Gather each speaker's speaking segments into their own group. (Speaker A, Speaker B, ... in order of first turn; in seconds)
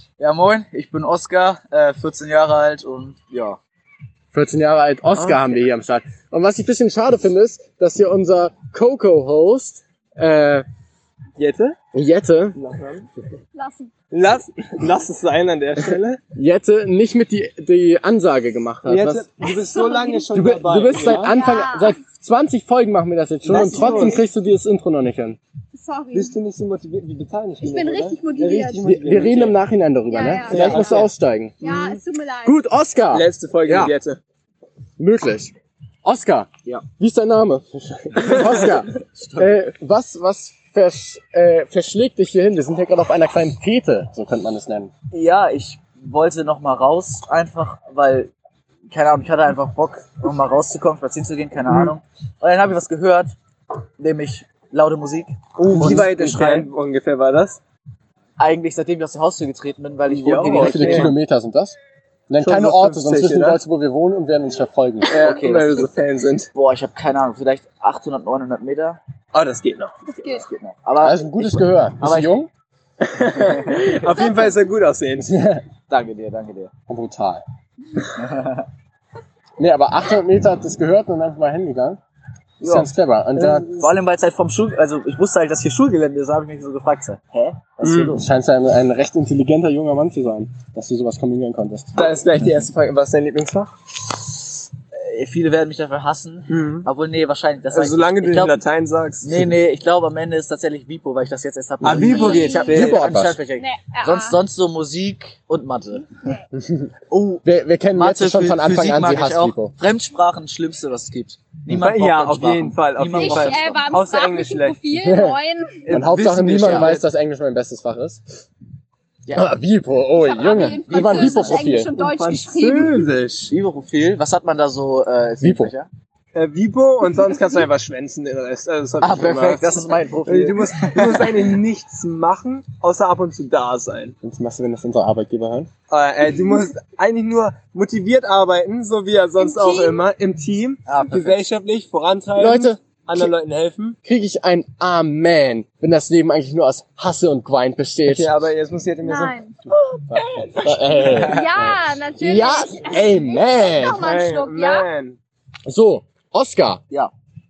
Speaker A: 0.2-3.6, 23.5-24.2, 39.1-39.6, 45.1-48.3, 48.9-53.4, 54.0-56.7, 58.4-61.1, 65.2-65.9, 66.5-69.0, 70.2-72.3, 75.9-76.7, 78.0-78.7, 82.6-82.9, 83.6-88.2, 94.9-98.6, 99.2-106.2, 107.1-113.9, 116.6-116.9, 120.6-121.6, 123.5-125.9, 129.0-131.4, 140.8-141.4, 151.1-151.7
Speaker B: 4.3-10.6, 11.9-12.6, 16.3-19.3, 20.3-25.4, 28.8-31.6, 32.4-33.9, 35.0-35.5, 36.0-44.9, 60.5-61.8, 62.3-65.2, 71.0-72.5, 75.3-75.6, 76.9-77.4, 79.6-82.0, 82.6-83.7, 88.1-92.0, 102.7-103.4, 106.6-106.9, 107.4-109.7, 114.9-118.2, 119.3-121.9, 125.4-125.7, 134.2-135.7, 142.4-143.3, 144.0-148.3, 150.6-151.4, 152.2-154.0, 155.7-156.8
Speaker C: 5.1-5.6, 11.4-11.8, 12.5-13.1, 14.1-16.2, 18.8-21.3, 23.4-24.2, 26.1-29.6, 30.4-32.0, 33.1-34.2, 55.6-57.6, 60.1-61.1, 62.4-63.6, 65.1-66.5, 69.3-70.0, 73.0-75.4, 83.4-83.9, 87.8-88.1, 91.9-93.7, 96.5-96.9, 97.7-99.4, 101.8-103.1, 111.7-114.8, 115.8-117.0, 121.9-123.5, 126.3-134.1, 135.9-143.9, 148.0-149.3, 150.1-151.3, 153.8-155.2
Speaker D: 13.5-13.9, 19.4-20.2, 21.2-22.0, 25.7-26.4, 27.6-28.8, 30.1-31.1, 31.6-32.6, 70.1-70.4, 74.1-74.5, 102.1-102.9, 103.6-104.4, 113.1-115.8, 120.2-123.0, 139.4-140.0, 149.0-154.9